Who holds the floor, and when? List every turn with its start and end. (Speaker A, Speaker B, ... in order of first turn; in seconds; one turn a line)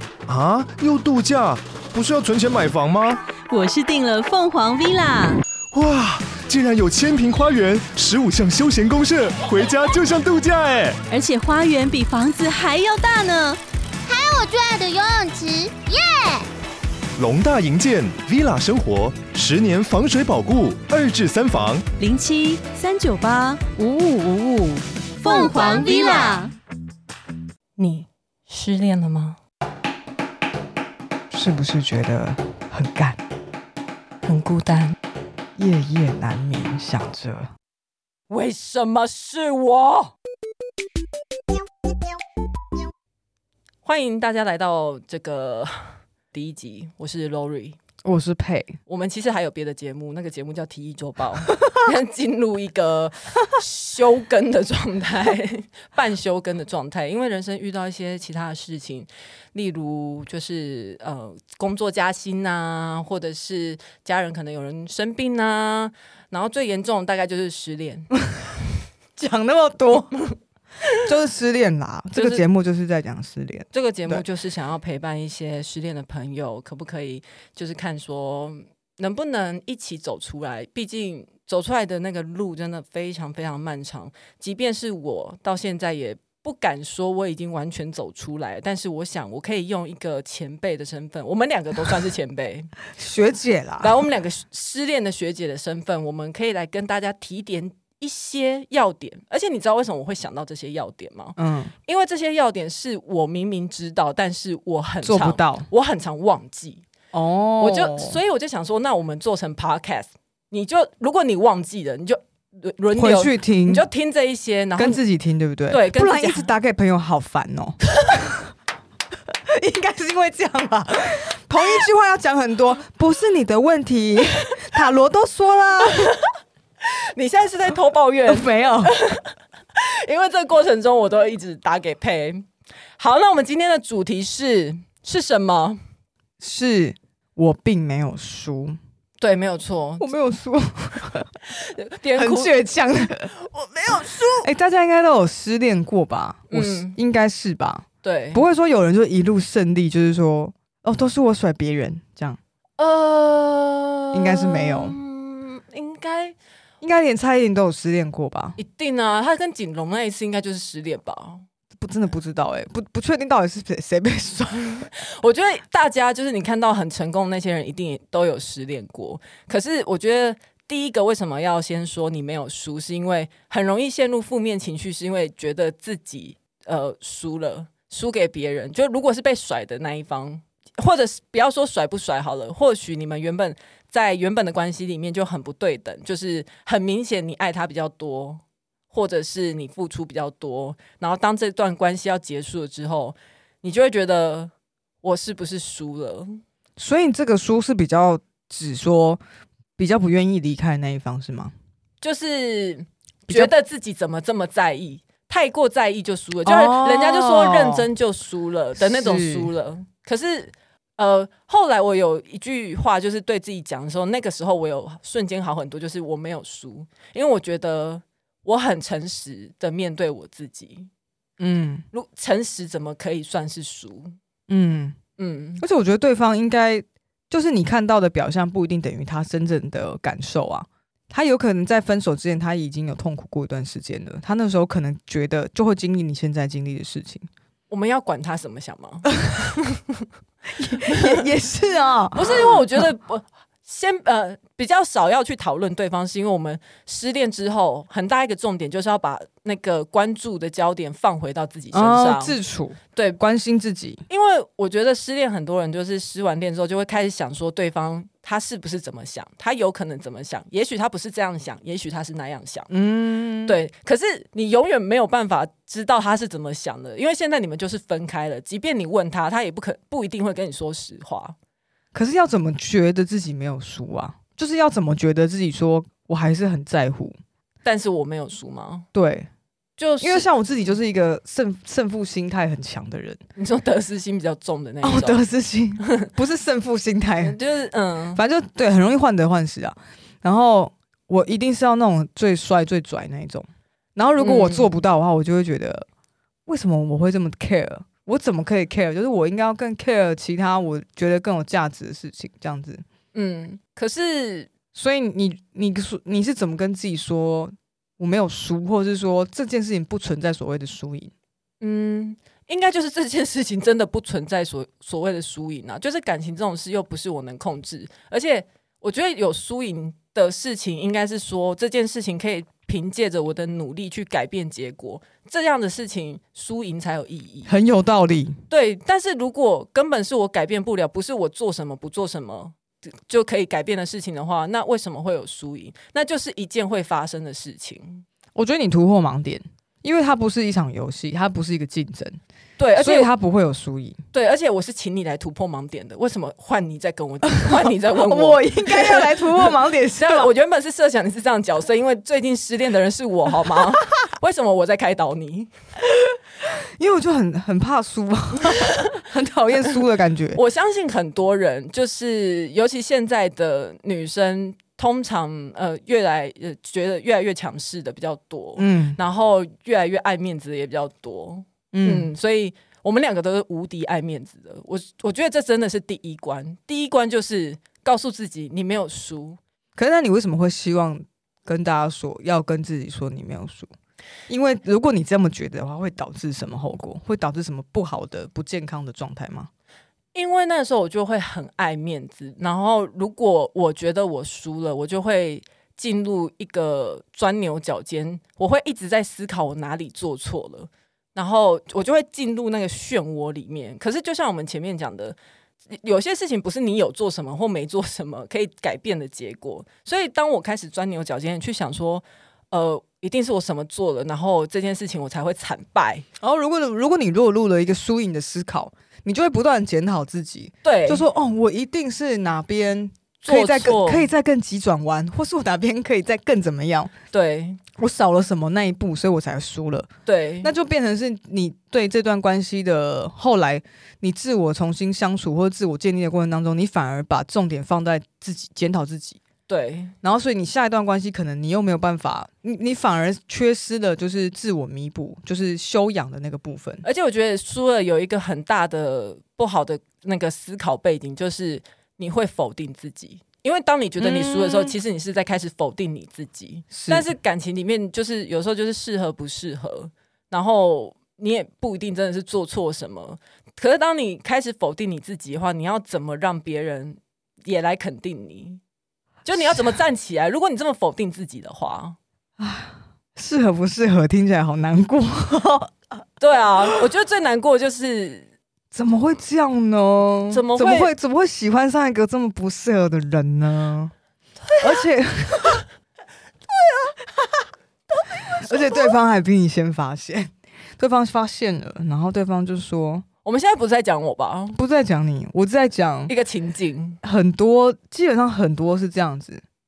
Speaker A: 0.3-3.1
Speaker B: 3.4-5.4
Speaker A: 5.7-11.0
Speaker B: 11.1-13.6
Speaker C: 14.1-16.5
Speaker A: 17.2-21.8
Speaker B: 22.0-26.5
Speaker C: 25.3-26.4
Speaker D: 27.8-29.4
Speaker E: 31.3-33.2
Speaker D: 34.2-35.0
Speaker E: 35.6-37.5
Speaker D: 38.3-40.1
Speaker D: 43.8-47.8
Speaker E: 48.0-48.8
Speaker D: 48.9-68.1
Speaker E: 69.2-70.2
Speaker E: 71.0-74.2
Speaker D: 72.1-72.5
Speaker D: 73.7-92.7
Speaker E: 93.0-94.0
Speaker D: 93.8-106.8
Speaker E: 101.4-101.7
Speaker E: 105.0-105.7
Speaker E: 107.1-108.2
Speaker D: 107.6-115.0
Speaker E: 113.0-113.9
Speaker E: 114.8-117.8
Speaker D: 115.7-116.5
Speaker E: 119.5-126.2
Speaker D: 125.9-126.3
Speaker D: 126.8-132.5
Speaker E: 128.2-128.9
Speaker D: 133.0-135.8
Speaker E: 136.4-138.8
Speaker D: 139.2-140.1
Speaker E: 140.0-141.3
Speaker D: 141.5-142.5
Speaker E: 142.1-143.3
Speaker D: 143.3-144.5
Speaker E: 144.4-152.4
Speaker D: 146.5-147.0
Speaker D: 148.0-148.4
Speaker D: 152.8-156.3
Speaker E: 154.1-155.0
Speaker E: 156.8-158.6
Speaker D: 158.6-161.4
Speaker E: 161.7-164.9
Speaker D: 165.1-196.4
Speaker E: 196.8-199.2
Speaker E: 199.8-201.5
Speaker D: 202.0-220.9
Speaker E: 206.4-207.9
Speaker E: 208.8-209.5
Speaker E: 221.4-221.8
Speaker D: 221.9-224.2
Speaker E: 224.5-225.0
Speaker D: 225.2-225.6
Speaker E: 225.6-237.2
Speaker D: 237.7-239.9
Speaker E: 240.6-242.9
Speaker D: 240.9-241.2
Speaker D: 242.2-252.4
Speaker E: 251.7-254.1
Speaker D: 254.1-262.7
Speaker E: 262.7-263.6
Speaker D: 263.4-271.4
Speaker E: 271.9-277.2
Speaker D: 277.6-278.9
Speaker E: 278.9-279.3
Speaker D: 279.8-280.3
Speaker E: 280.0-283.2
Speaker D: 283.4-285.2
Speaker E: 284.8-287.4
Speaker D: 287.2-288.2
Speaker E: 288.1-295.9
Speaker D: 294.2-294.7
Speaker E: 296.5-302.8
Speaker D: 303.1-304.5
Speaker E: 304.7-311.1
Speaker D: 311.6-327.5
Speaker E: 327.4-328.4
Speaker D: 328.5-332.6
Speaker D: 333.1-338.1
Speaker E: 338.4-342.2
Speaker D: 342.6-343.1
Speaker E: 342.8-344.0
Speaker D: 344.1-349.4
Speaker E: 347.3-350.3
Speaker D: 349.9-355.5
Speaker E: 356.8-360.4
Speaker D: 360.3-379.4
Speaker E: 368.6-369.0
Speaker E: 371.7-372.1
Speaker E: 379.8-383.7
Speaker E: 384.3-389.5
Speaker D: 390.1-405.2
Speaker D: 405.7-416.1
Speaker E: 416.2-426.9
Speaker D: 420.6-421.1
Speaker D: 423.2-424.1
Speaker D: 427.1-427.6
Speaker E: 427.8-429.9
Speaker D: 430.1-430.5
Speaker E: 430.4-439.2
Speaker D: 439.5-439.9
Speaker E: 440.0-446.8
Speaker D: 446.8-468.6
Speaker E: 454.0-454.8
Speaker E: 456.7-457.1
Speaker D: 469.2-472.0
Speaker E: 469.4-469.6
Speaker E: 472.4-476.0
Speaker D: 476.2-478.3
Speaker E: 478.7-483.9
Speaker D: 480.3-480.9
Speaker E: 484.6-485.6
Speaker D: 488.2-488.9
Speaker E: 488.4-493.1
Speaker D: 493.2-494.6
Speaker E: 494.5-496.1
Speaker D: 496.1-497.0
Speaker E: 497.0-499.4